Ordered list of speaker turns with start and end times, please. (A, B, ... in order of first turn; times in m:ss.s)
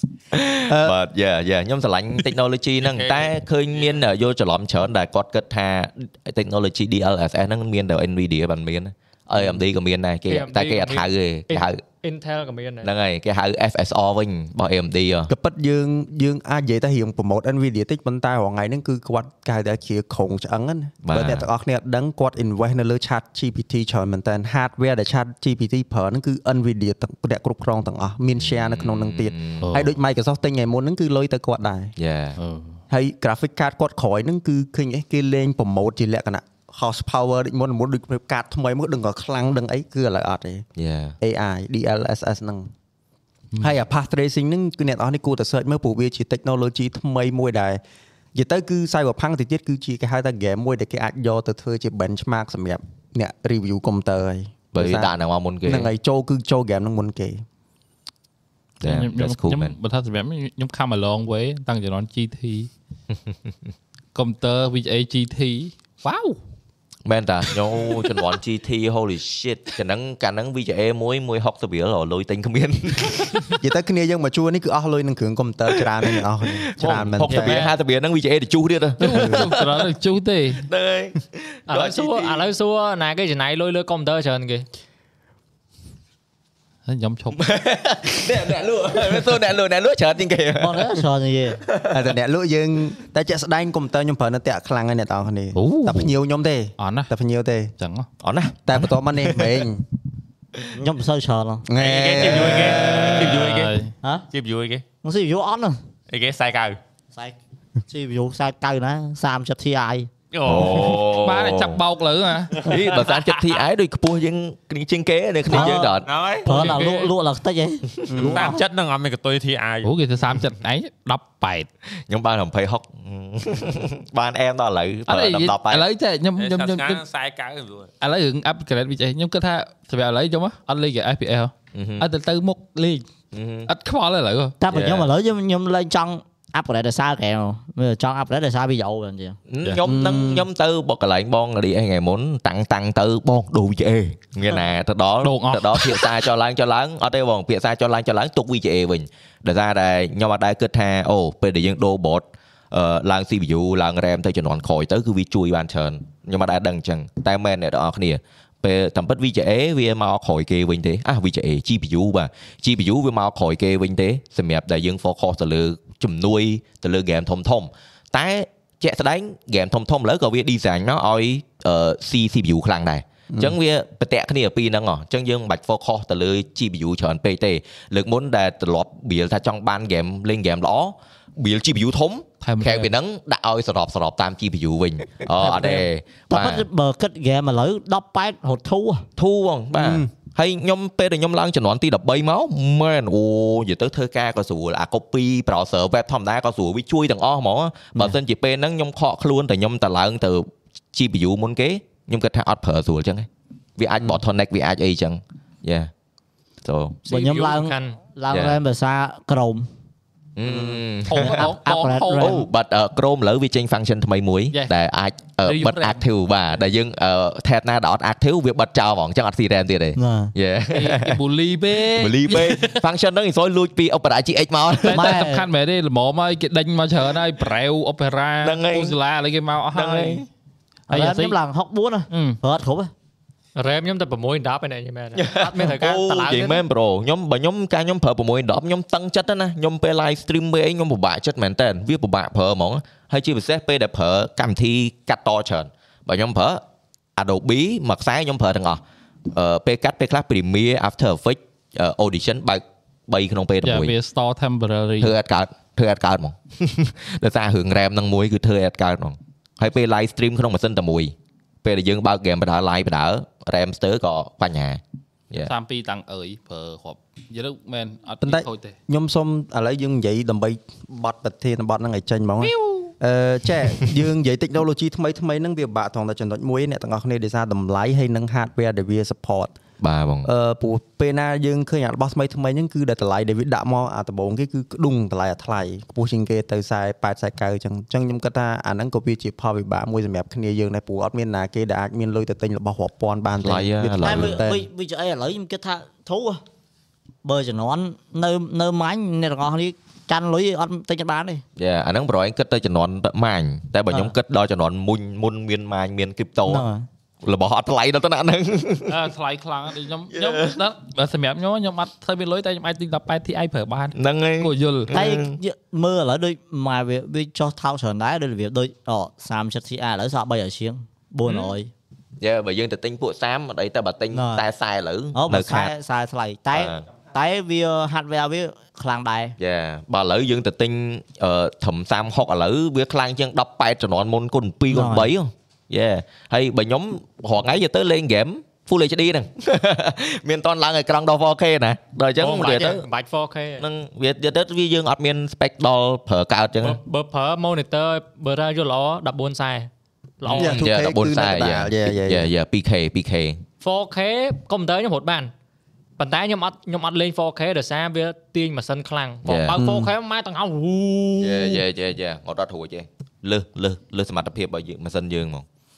0:00.3-0:11.8 A
0:00.7-0:01.0 B
0:02.8-0:04.0 C
0:09.3-0:09.6 B
0:10.3-0:12.9 D
0:12.8-0:15.3 A
0:15.3-0:31.9 B
0:21.0-0:21.5 A
0:28.4-0:29.7 A
0:29.6-0:29.9 E
0:32.0-0:32.4 A
0:32.4-0:32.8 E
0:32.9-0:40.6 B
0:40.8-0:41.2 A
0:41.2-0:42.7 B
0:43.5-0:43.8 E
0:43.6-0:47.8 B
0:48.3-0:55.1 B
0:54.7-0:55.9 A
0:55.7-0:57.4 B
0:58.8-0:59.8 A
0:58.8-1:02.7 E
1:04.2-1:06.4 E
1:07.0-1:13.5 A
1:13.6-1:17.6 B
1:16.0-1:19.9 A
1:17.3-1:17.7 D
1:19.0-1:20.6 E
1:19.2-1:19.5 B
1:20.6-1:22.5 A
1:21.7-1:24.7 D
1:26.9-1:27.4 E
1:27.4-1:31.1 A
1:30.6-1:31.6 F
1:31.7-1:32.0 A
1:31.9-1:37.7 B
1:35.5-1:36.1 E
1:36.8-1:37.1 E
1:37.8-1:38.1 E
1:38.2-1:39.7 A
1:38.7-1:39.8 B
1:40.7-1:41.7 F
1:41.7-1:43.4 B
1:41.8-1:43.8 C
1:42.3-1:43.4 A
1:43.2-1:43.9 E
1:44.3-1:44.8 C
1:45.0-1:45.8 F
1:46.1-1:46.8 C
1:47.9-1:50.1 F
1:50.3-1:51.0 C
1:50.4-1:51.8 A
1:50.5-1:52.6 E
1:52.5-1:53.6 C
1:52.7-1:56.1 A
1:55.5-1:58.6 F
1:55.5-1:56.8 C
1:56.5-1:57.1 D
1:58.1-1:58.6 B
1:58.3-1:59.9 C
1:59.8-2:01.7 E
2:02.1-2:05.8 A
2:05.1-2:07.0 E
2:06.4-2:07.9 C
2:08.0-2:13.1 E
2:11.7-2:12.1 A
2:13.3-2:13.7 A
2:13.7-2:14.6 E
2:14.6-2:19.4 F
2:14.7-2:15.1 A
2:19.5-3:06.7 A
2:19.8-2:20.5 B
2:25.2-2:26.1 E
2:53.3-2:53.6 B
3:02.4-3:02.9 E
3:06.3-3:09.1 F
3:09.2-3:25.9 A
3:09.8-3:10.1 B
3:26.6-3:27.0 A
3:27.1-3:28.0 D
3:27.1-3:29.7 F
3:28.3-3:28.6 A
3:30.4-3:31.5 A
3:30.4-3:30.8 B
3:31.1-3:32.4 E
3:31.2-3:32.5 F
3:32.2-3:41.2 A
3:35.4-3:36.0 E
3:40.0-3:40.3 F
3:40.7-3:42.8 E
3:41.9-3:45.3 A
3:44.8-3:50.3 E
3:44.9-3:45.5 F
3:48.4-3:49.0 A
3:49.7-3:50.2 A
3:50.9-3:51.4 E
3:50.9-3:52.9 F
3:52.1-3:52.4 E
3:53.6-3:56.6 D
3:55.2-4:06.6 A
4:07.2-4:13.9 A
4:13.6-4:15.1 E
4:15.0-4:25.5 A
4:25.4-4:28.8 E
4:28.2-4:39.6 B
4:32.4-4:32.9 E
4:39.8-4:40.3 A
4:40.2-4:54.6 B
4:53.4-4:54.4 A
4:54.0-4:56.4 F
4:57.2-5:01.4 F
5:01.6-5:06.6 A
5:06.5-5:06.9 F
5:07.2-5:09.0 A
5:08.9-5:14.9 E
5:10.1-5:10.6 A
5:13.9-5:15.4 A
5:14.9-5:21.7 F
5:21.3-5:21.5 E
5:22.2-5:25.7 A
5:24.1-5:24.4 F
5:25.2-5:29.4 F
5:26.5-5:26.8 A
5:29.4-5:42.8 A
5:34.7-5:35.1 F
5:42.2-5:43.6 D
5:43.6-5:46.8 A
5:46.6-5:50.6 D
5:50.3-5:53.4 A
5:50.3-5:52.3 B
5:53.6-5:55.3 D
5:56.0-6:01.6 D
5:59.2-5:59.6 A
5:59.5-5:59.9 B
6:01.2-6:05.4 A